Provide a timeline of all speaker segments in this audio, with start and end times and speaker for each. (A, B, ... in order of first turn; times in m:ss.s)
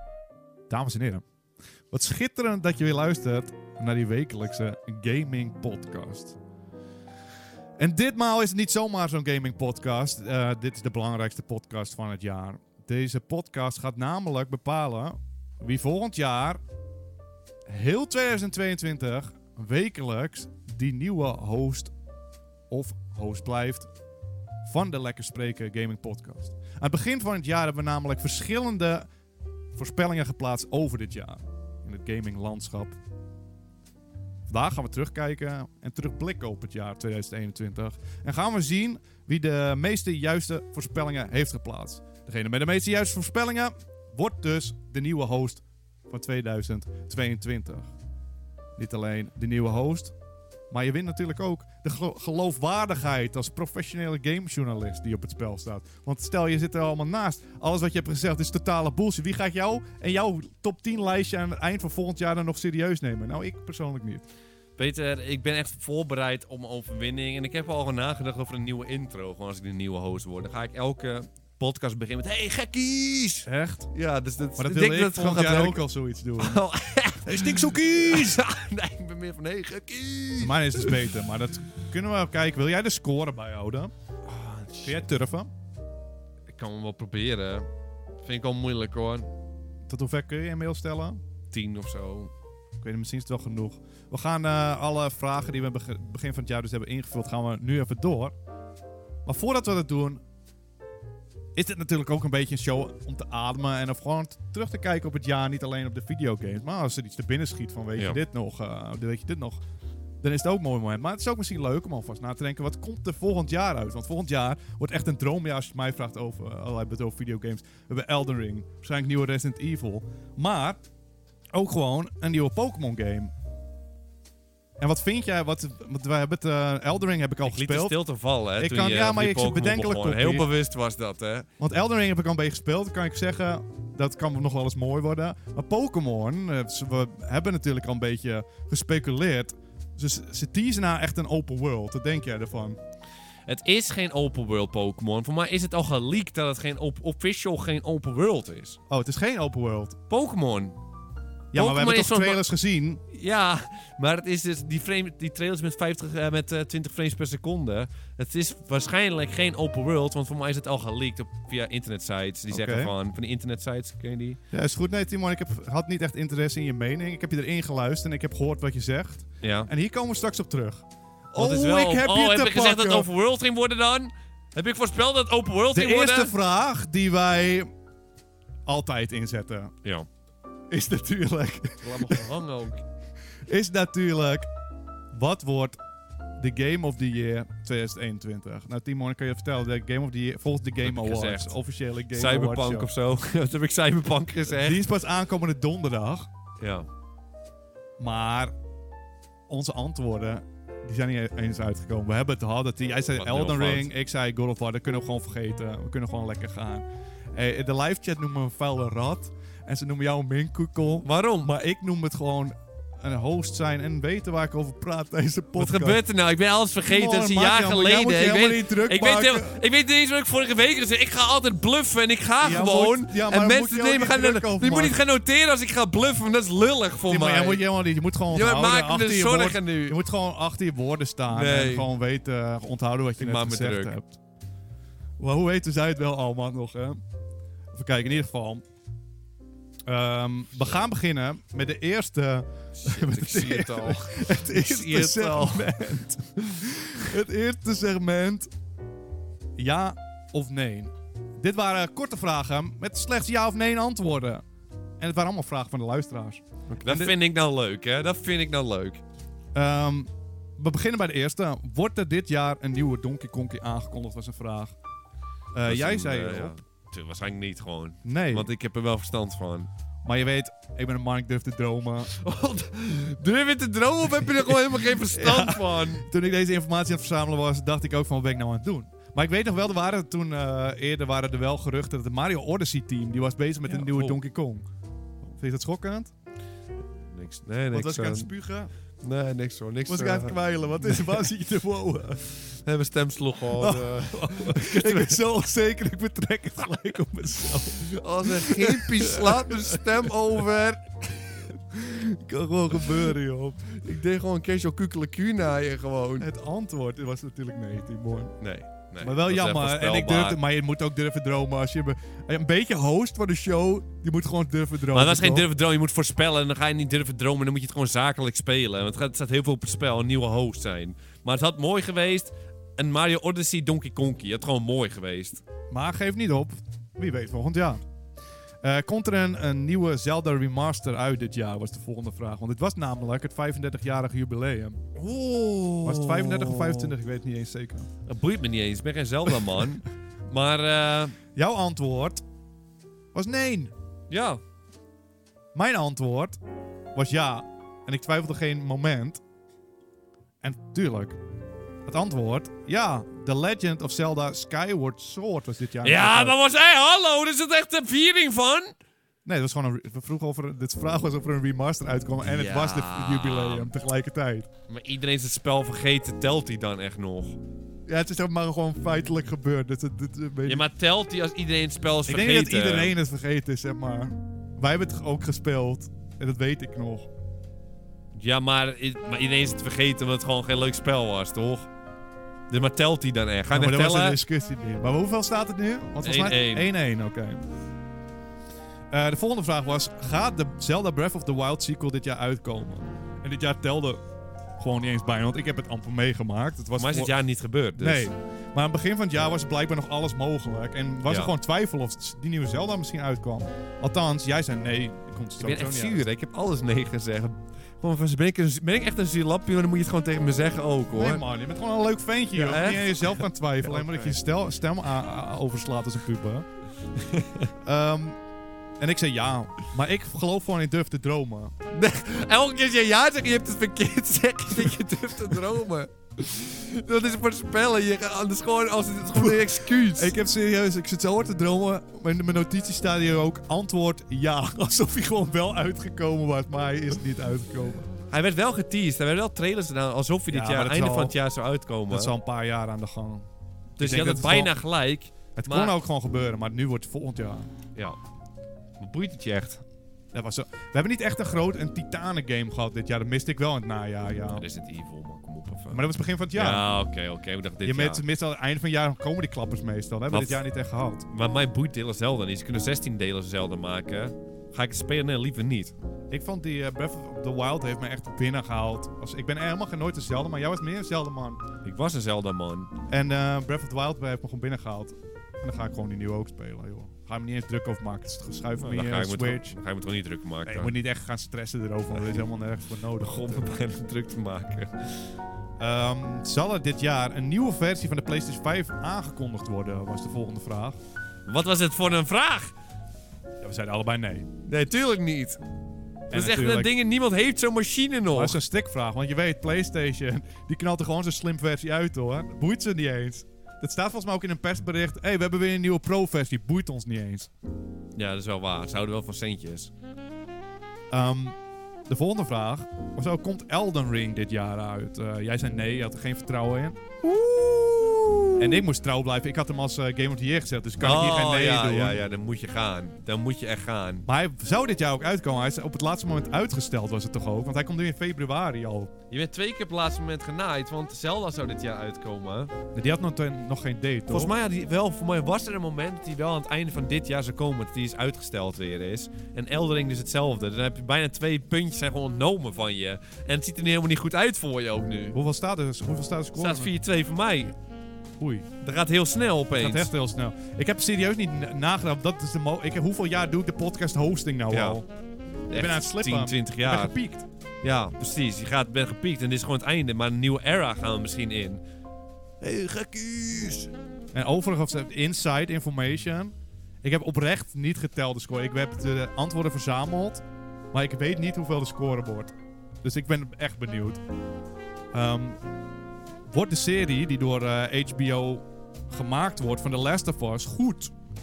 0:00.7-0:01.2 A
0:01.9-0:06.4 A
0:07.8-0:16.6 A
0:17.7-0:21.9 A
0:22.7-0:23.9 A
0:24.6-0:29.1 A
0:29.8-0:33.0 A
0:34.5-0:47.9 A
0:48.8-0:50.1 A
0:50.7-1:04.2 A
1:04.8-1:15.8 B
1:13.5-1:13.9 A
1:14.6-1:16.6 A
1:16.4-1:21.1 B
1:17.2-1:18.4 A
1:20.4-1:23.9 A
1:24.3-1:24.9 B
1:24.8-1:25.5 A
1:26.5-1:27.7 B
1:28.2-1:29.3 B
1:29.9-1:31.2 A
1:31.5-1:32.3 B
1:32.8-1:38.3 A
1:39.3-1:40.2 A
1:41.6-1:49.6 A
1:50.2-2:00.8 A
2:01.5-2:03.3 A
2:04.8-2:08.0 A
2:07.4-2:11.5 B
2:08.6-2:10.5 A
2:11.6-2:22.8 A
2:23.5-2:28.8 B
2:28.9-2:30.0 A
2:30.1-2:30.8 B
2:31.5-2:33.0 A
2:31.5-2:32.4 B
2:33.1-2:44.4 B
2:42.5-2:42.9 A
2:44.5-2:50.8 A
2:49.4-2:49.7 B
2:51.3-2:56.4 B
2:51.3-2:53.1 A
2:55.7-2:57.7 A
2:58.7-2:59.7 A
3:00.7-3:02.3 A
3:01.8-3:02.8 B
3:03.5-3:04.5 A
3:05.1-3:05.8 A
3:06.4-3:12.9 A
3:10.8-3:11.6 B
3:12.1-3:14.8 B
3:14.5-3:16.3 A
3:16.6-3:16.9 B
3:18.0-3:18.5 A
3:19.5-3:36.0 A
3:23.1-3:23.9 B
3:31.0-3:31.5 B
3:35.6-3:47.6 B
3:36.8-3:39.6 A
3:42.4-3:45.0 A
3:47.1-3:54.2 A
3:48.3-3:50.0 B
3:51.3-3:51.9 B
3:53.2-3:54.0 B
3:55.2-3:57.0 A
3:57.7-3:58.6 A
3:59.9-4:08.5 A
4:02.8-4:05.9 B
4:09.6-4:14.4 A
4:15.0-4:17.2 A
4:16.7-4:19.0 B
4:19.6-4:24.7 A
4:25.5-4:26.5 A
4:25.7-4:29.7 B
4:28.0-4:28.5 A
4:30.0-4:32.1 A
4:32.1-4:36.1 B
4:34.3-4:44.7 A
4:43.7-4:44.2 B
4:45.3-4:46.1 A
4:47.1-4:48.3 B
4:47.7-4:48.7 A
4:49.0-4:51.3 B
4:49.9-4:52.3 A
4:52.6-4:55.2 B
4:53.6-5:00.1 A
4:57.8-5:01.2 B
5:01.5-5:03.6 A
5:02.8-5:03.1 B
5:03.6-5:06.3 B
5:06.2-5:08.4 A
5:08.4-5:10.4 B
5:09.0-5:15.5 A
5:14.9-5:25.4 B
5:25.7-5:27.8 A
5:28.6-5:34.8 A
5:35.0-5:36.9 B
5:35.8-5:37.9 A
5:38.1-5:41.2 B
5:41.4-5:42.2 A
5:43.1-5:43.7 A
5:44.1-5:44.4 B
5:45.6-5:46.4 A
5:47.0-5:49.2 A
5:50.4-5:51.2 A
5:51.9-5:56.4 A
5:55.8-5:58.8 B
5:59.2-6:04.5 A
6:02.2-6:03.7 B
6:04.7-6:07.4 B
6:07.9-6:10.7 A
6:10.5-6:12.9 B
6:12.1-6:17.1 A
6:18.2-6:21.7 B
6:22.5-6:24.2 B
6:23.5-6:27.4 A
6:26.0-6:26.7 B
6:28.9-6:34.0 A
6:34.6-6:37.1 A
6:36.8-6:38.1 B
6:37.8-6:46.1 A
6:41.0-6:41.3 B
6:45.4-6:51.2 B
6:50.9-6:56.5 A
6:52.3-6:54.2 B
6:57.0-6:57.5 B
6:57.6-6:58.2 A
6:58.8-7:01.5 A
7:01.7-7:10.2 B
7:09.1-7:17.9 A
7:18.1-7:22.1 B
7:20.3-7:21.2 A
7:21.9-7:23.3 A
7:23.8-7:25.8 B
7:23.8-7:24.5 A
7:25.4-7:27.5 A
7:28.8-7:29.6 B
7:30.1-7:34.4 A
7:34.2-7:38.0 B
7:35.7-7:36.7 A
7:37.6-7:41.1 A
7:40.1-7:40.4 B
7:41.1-7:45.7 B
7:46.1-7:51.4 A
7:51.6-7:52.7 B
7:52.9-7:59.6 A
7:58.6-8:00.7 B
8:00.4-8:03.5 A
8:02.0-8:02.2 B
8:03.0-8:04.9 B
8:05.6-8:10.8 A
8:11.3-8:12.5 B
8:13.4-8:14.3 A
8:14.4-8:15.4 B
8:16.1-8:16.7 A
8:16.1-8:18.4 B
8:18.1-8:27.3 A
8:28.0-8:29.7 B
8:30.9-8:31.4 A
8:31.9-8:36.8 A
8:37.0-8:38.6 B
8:38.4-8:42.0 A
8:40.8-8:44.1 B
8:44.1-8:48.9 A
8:49.1-8:52.5 B
8:52.7-8:54.3 A
8:54.1-9:05.2 B
9:05.1-9:06.7 A
9:06.4-9:07.6 B
9:08.2-9:08.5 A
9:08.6-9:09.9 B
9:09.6-9:14.9 A
9:14.5-9:14.8 B
9:15.5-9:16.9 B
9:15.5-9:17.3 A
9:17.6-9:21.6 B
9:22.4-9:23.7 B
9:24.1-9:34.0 A
9:34.9-9:35.4 A
9:36.3-9:40.9 A